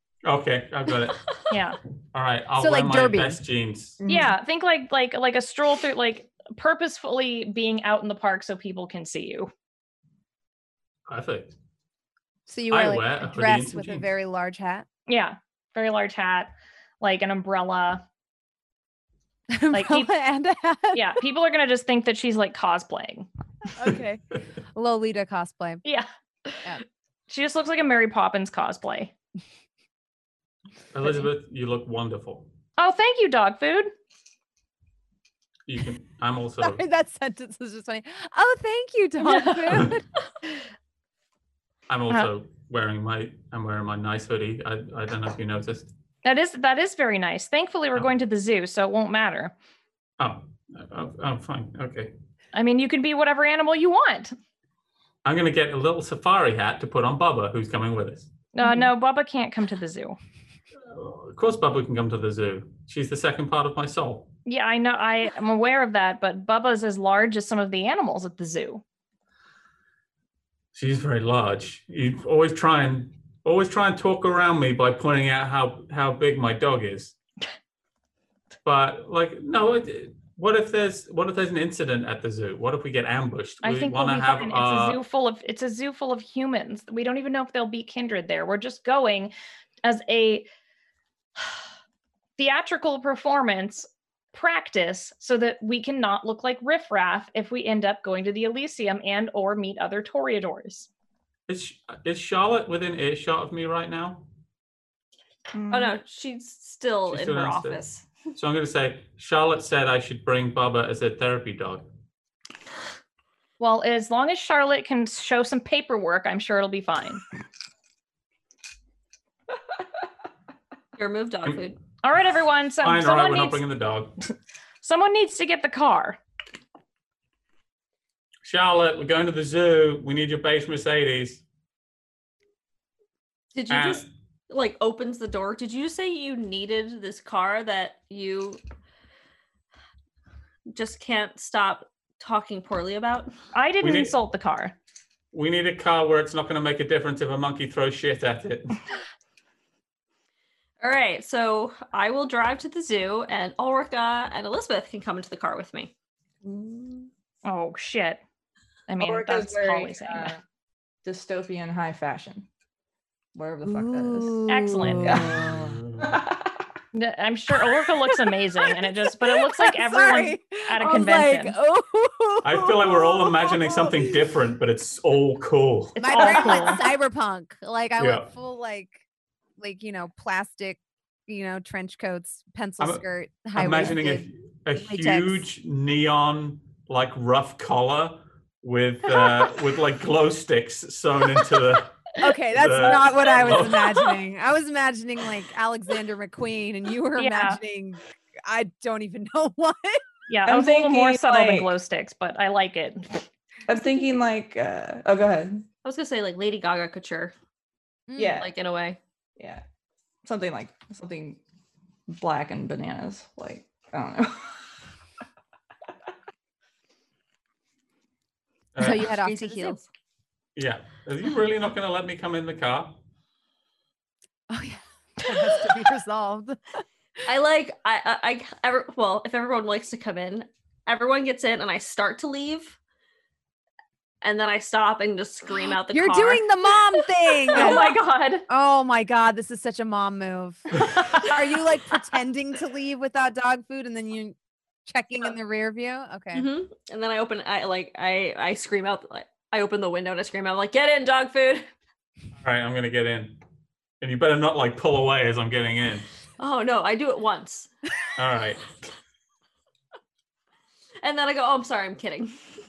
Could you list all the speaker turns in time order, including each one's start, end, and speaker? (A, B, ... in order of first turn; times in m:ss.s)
0:00.2-0:01.3 A
0:01.5-0:01.8 B
0:02.1-0:04.0 A
0:02.6-0:03.4 C
0:04.0-0:04.3 D
0:04.1-0:09.5 B
0:11.1-0:11.6 A
0:12.5-0:14.9 C
0:12.7-0:14.1 A
0:15.1-0:18.0 B
0:19.5-0:21.1 C
0:19.7-0:20.2 B
0:20.9-0:23.3 B
0:23.8-0:24.2 C
0:24.7-0:25.8 C
0:25.8-0:29.1 B
0:30.9-0:32.5 A
0:32.8-0:33.9 B
0:35.7-0:36.8 A
0:36.6-0:40.0 C
0:41.9-0:45.9 A
0:46.2-0:49.5 B
0:50.2-0:52.1 A
0:52.5-0:54.4 B
0:55.2-0:58.3 A
0:58.6-1:00.2 B
1:00.9-1:04.3 A
1:04.5-1:08.8 B
1:10.7-1:17.2 A
1:18.6-1:25.0 A
1:23.6-1:29.3 B
1:29.8-1:30.5 B
1:32.4-1:40.9 B
1:41.5-1:44.2 A
1:45.5-1:46.0 D
1:45.7-1:48.1 E
1:47.1-1:47.8 A
1:48.3-1:51.9 A
1:53.6-1:57.2 B
2:01.0-2:01.8 E
2:02.0-2:03.6 B
2:02.8-2:04.2 A
2:04.8-2:06.2 B
2:08.4-2:11.4 A
2:13.5-2:18.6 E
2:13.7-2:14.1 A
2:20.7-2:23.3 E
2:23.5-2:24.7 B
2:23.8-2:24.1 A
2:25.3-2:28.8 A
2:30.8-2:35.9 E
2:36.4-2:37.1 D
2:37.4-2:38.2 B
2:38.9-2:40.4 B
2:39.0-2:40.4 D
2:41.0-2:42.5 D
2:43.4-2:44.4 D
2:43.6-2:45.7 C
2:44.5-2:45.2 B
2:45.0-2:45.4 D
2:45.1-2:46.2 A
2:46.0-2:46.6 D
2:46.9-2:51.6 B
2:48.6-2:54.2 C
2:52.4-2:56.0 A
2:56.0-2:56.8 B
2:56.0-2:59.0 C
2:58.0-2:58.3 A
2:59.6-3:05.5 C
3:02.8-3:14.1 A
3:12.2-3:20.0 C
3:17.2-3:17.6 B
3:20.3-3:23.2 B
3:20.5-3:21.8 D
3:23.7-3:25.6 D
3:25.8-3:27.4 E
3:28.1-3:28.4 C
3:28.2-3:28.5 D
3:28.3-3:29.0 E
3:29.4-3:29.6 D
3:30.2-3:31.4 D
3:32.1-3:34.7 D
3:38.7-3:39.1 A
3:38.8-3:39.8 C
3:38.8-3:39.9 E
3:40.6-3:43.0 A
3:44.5-3:46.8 C
3:47.3-3:52.8 E
3:54.2-3:56.4 E
3:55.9-3:58.0 C
3:57.5-3:58.5 B
3:58.5-4:06.5 C
4:06.3-4:11.7 E
4:12.4-4:13.4 A
4:14.0-4:16.1 A
4:16.4-4:17.7 E
4:18.2-4:18.8 A
4:21.0-4:22.4 E